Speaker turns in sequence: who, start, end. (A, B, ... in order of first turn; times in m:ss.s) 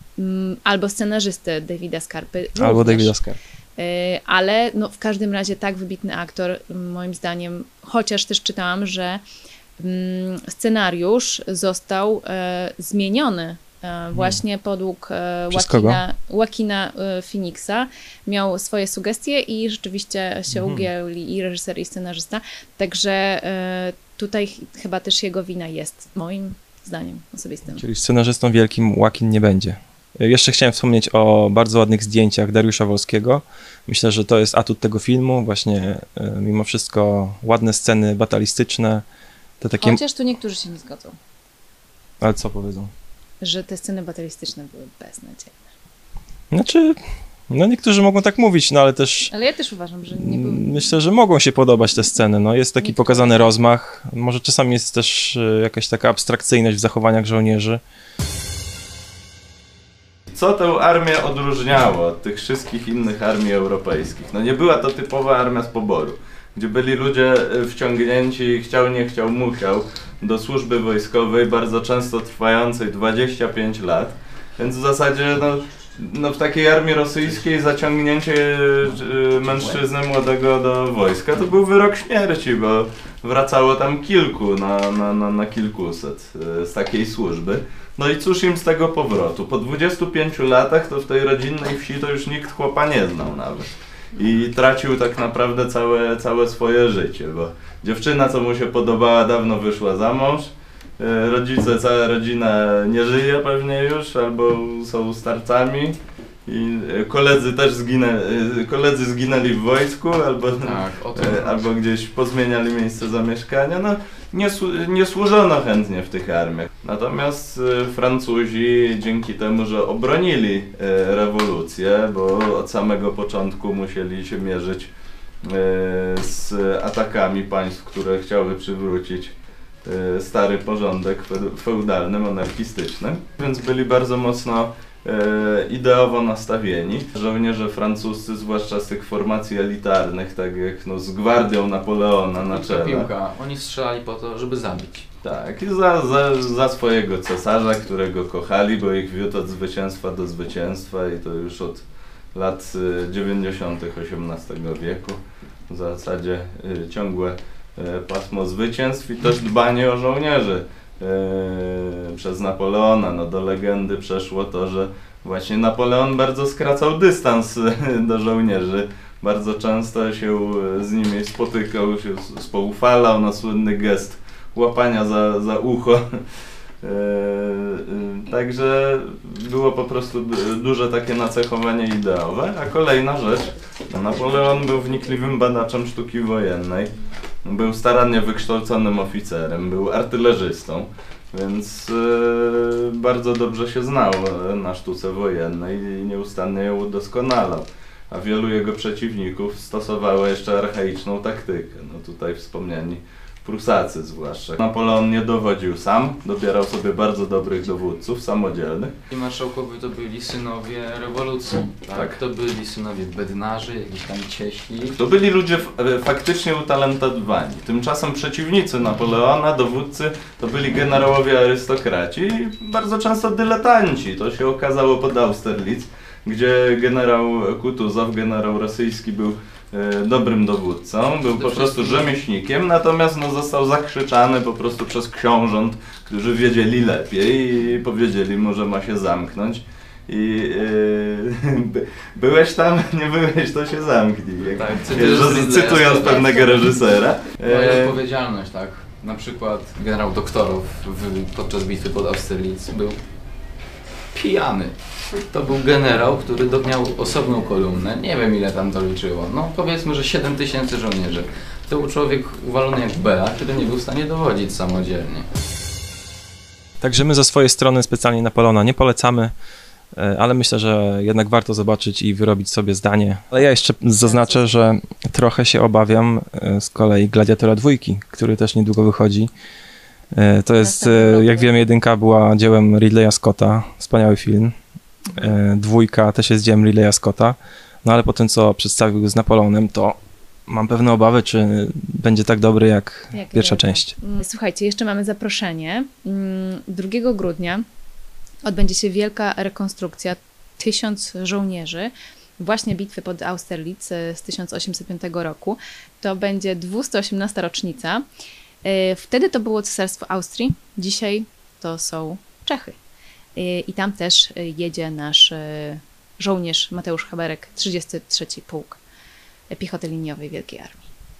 0:00.2-0:03.1 A
0:02.6-0:03.4 B
0:03.8-0:09.2 A
0:09.8-0:27.8 A
0:15.5-0:16.0 B
0:20.5-0:20.9 B
0:27.8-0:39.0 B
0:39.6-0:40.0 B
0:39.8-0:41.1 A
0:42.2-0:42.9 B
0:43.4-0:45.6 A
0:46.5-0:47.0 B
0:47.5-0:49.3 B
0:49.3-0:50.9 A
0:50.2-0:57.8 B
0:52.8-0:53.6 A
1:00.3-2:04.9 C
1:50.6-1:51.6 D
2:05.4-2:09.3 C
2:09.8-2:23.1 C
2:22.4-2:25.0 D
2:25.2-2:31.8 C
2:32.3-2:56.2 C
2:56.8-3:06.9 C
3:07.4-3:28.9 C
3:29.1-3:35.0 D
3:34.9-4:08.0 C
3:51.3-3:52.2 D
4:04.5-4:06.7 D
4:07.4-4:13.0 D
4:14.1-4:25.3 D
4:26.8-4:29.3 B
4:30.0-4:39.3 B
4:34.0-4:34.6 A
4:40.1-4:44.5 B
4:40.6-4:41.6 A
4:45.1-4:50.0 B
4:50.5-4:53.9 B
4:53.1-4:57.6 A
4:58.4-5:08.0 A
5:08.6-5:12.8 A
5:13.3-5:18.8 A
5:19.5-5:20.9 A